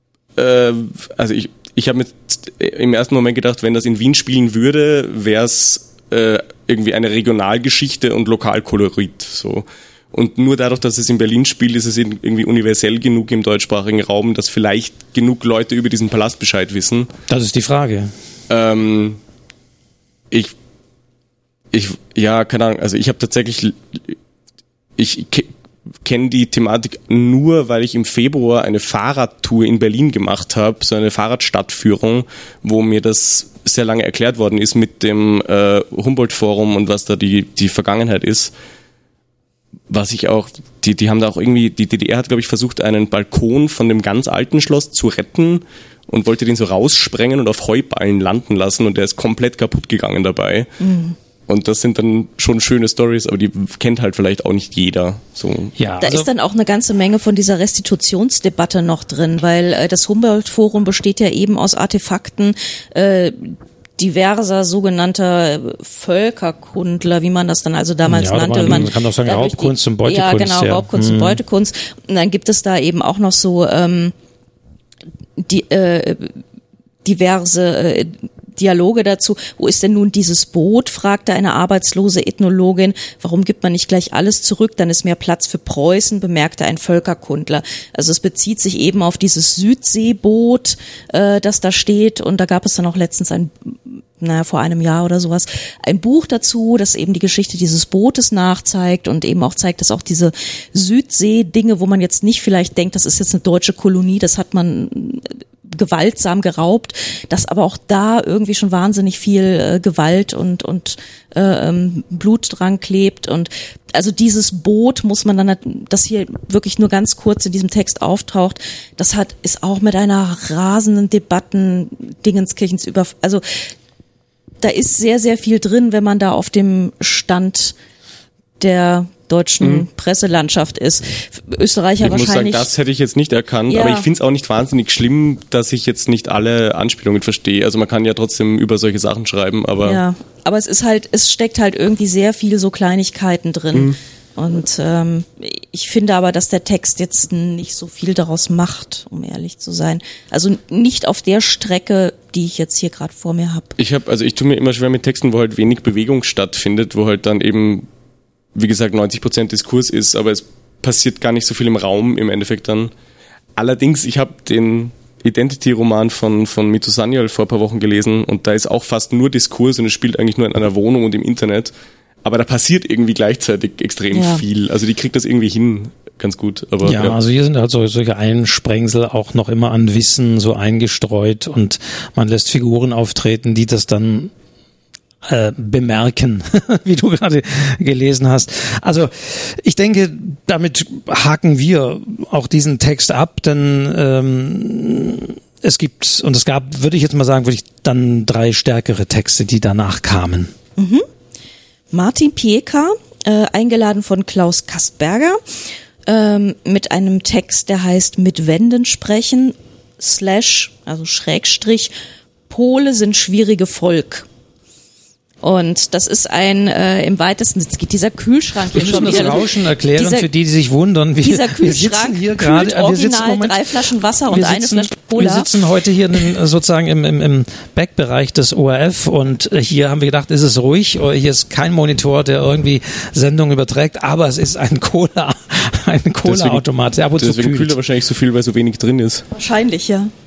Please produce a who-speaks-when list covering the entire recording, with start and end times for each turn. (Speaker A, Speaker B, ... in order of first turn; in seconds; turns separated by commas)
Speaker A: 0.3-17.1, Speaker B: 17.3-18.1, Speaker A: 18.5-19.2, Speaker A: 21.7-24.1, Speaker A: 25.0-25.5, Speaker A: 26.0-38.5, Speaker A: 39.9-50.7, Speaker C: 50.8-51.1, Speaker A: 51.5-55.7, Speaker B: 55.8-56.3, Speaker C: 56.0-74.1, Speaker B: 68.1-71.4, Speaker C: 75.4-76.3, Speaker C: 77.0-123.4, Speaker C: 124.6-127.7, Speaker C: 128.6-132.7, Speaker A: 132.0-140.0, Speaker C: 133.7-134.1, Speaker C: 139.8-153.7, Speaker A: 153.8-157.8, Speaker A: 158.5-162.9, Speaker A: 163.6-171.7, Speaker A: 172.2-177.2, Speaker C: 174.1-174.4, Speaker B: 176.8-184.3, Speaker B: 185.2-200.5, Speaker C: 200.8-201.0, Speaker C: 201.9-205.4, Speaker C: 206.1-211.9, Speaker C: 212.5-214.2, Speaker C: 215.4-220.3, Speaker B: 218.7-223.8, Speaker C: 221.2-225.5, Speaker B: 224.3-237.8, Speaker A: 236.2-236.6, Speaker A: 237.2-239.3, Speaker C: 239.3-240.1